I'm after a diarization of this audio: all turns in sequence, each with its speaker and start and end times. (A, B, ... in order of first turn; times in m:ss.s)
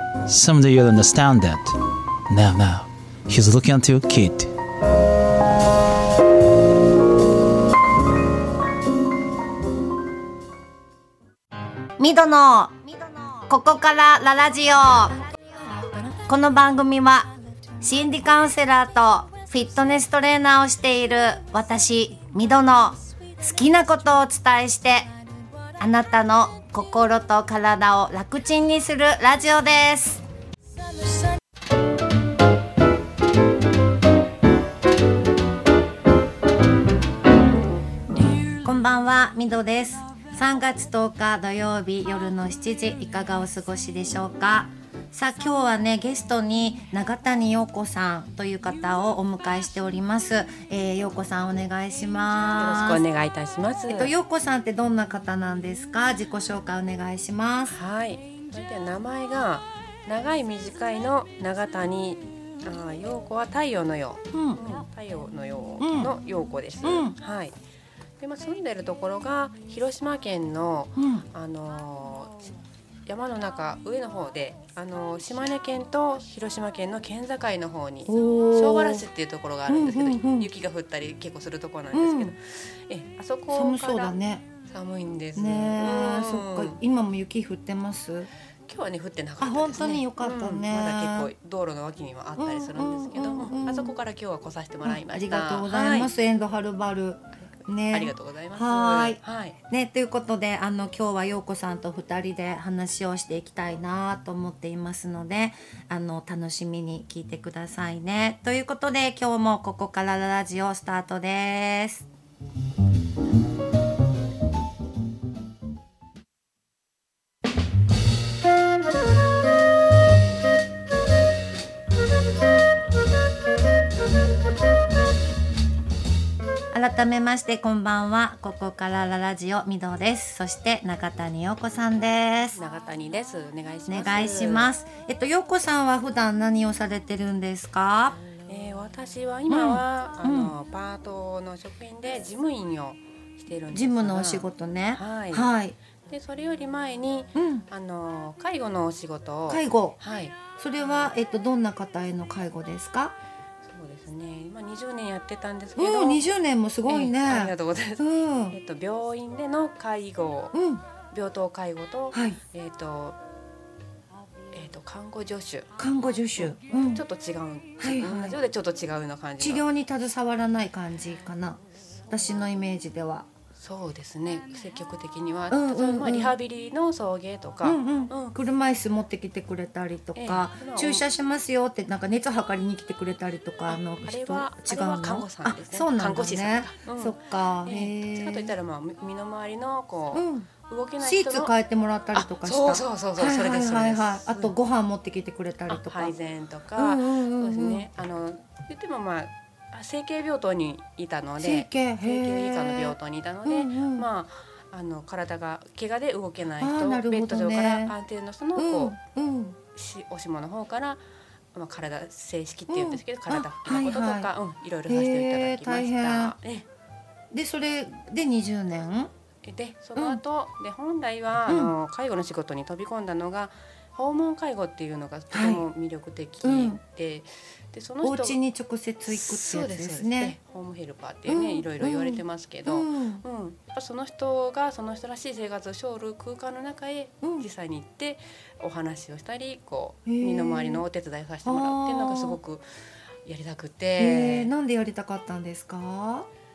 0:00.3-0:01.7 A
0:02.3-0:04.5 A
0:12.0-0:15.2 B
0:16.1-0:25.1 B
0:25.8-0:30.2 B
0:38.2-0:53.0 B
0:52.5-0:54.1 C
0:53.9-0:57.8 B
0:57.7-1:07.6 C
1:04.3-1:04.6 B
1:05.8-1:06.1 B
1:06.8-1:07.2 B
1:08.2-1:26.8 C
1:11.0-1:11.2 B
1:18.1-1:19.0 B
1:19.7-1:20.5 B
1:21.9-1:22.4 B
1:23.5-1:24.4 B
1:25.3-1:28.3 B
1:28.7-1:36.1 C
1:29.4-1:31.3 B
1:32.4-1:33.9 B
1:34.8-1:52.1 B
1:37.9-1:39.6 C
2:06.7-2:12.6 B
2:12.6-2:14.7 C
2:13.9-2:18.2 B
2:18.2-2:25.5 C
2:19.5-2:20.5 B
2:23.7-2:25.8 B
2:26.0-2:31.1 C
2:27.4-2:27.7 B
2:29.5-2:30.0 B
2:30.6-2:33.1 B
2:33.6-2:36.2 C
2:35.8-2:38.6 B
2:36.8-2:40.5 C
2:40.5-2:40.8 B
2:41.1-2:43.2 C
2:42.1-2:42.4 B
2:44.5-2:45.7 C
2:45.8-2:47.0 B
2:46.4-2:49.6 C
2:47.8-2:48.4 B
2:49.4-2:53.3 B
2:51.9-2:52.4 C
2:53.5-2:58.4 C
2:55.5-2:56.4 B
2:57.6-3:08.5 B
3:00.2-3:01.0 C
3:03.7-3:11.5 C
3:10.1-3:10.5 B
3:11.0-3:16.1 B
3:12.1-3:14.5 C
3:15.7-3:29.0 C
3:16.7-3:17.9 B
3:21.4-3:24.0 B
3:26.6-3:27.9 B
3:28.5-3:29.6 B
3:29.7-3:31.0 C
3:31.5-3:36.6 C
3:32.7-3:34.3 B
3:34.9-3:36.3 B
3:37.3-3:39.1 B
3:39.4-3:48.4 C
3:40.0-3:40.2 B
3:41.5-3:41.7 B
3:45.3-3:45.6 B
3:46.4-3:46.8 B
3:48.0-3:50.4 B
3:49.1-4:02.6 C
3:51.2-3:53.2 B
3:57.2-3:57.5 B
4:00.0-4:00.8 B
4:01.4-4:02.4 B
4:03.2-4:04.5 C
4:04.0-4:06.3 B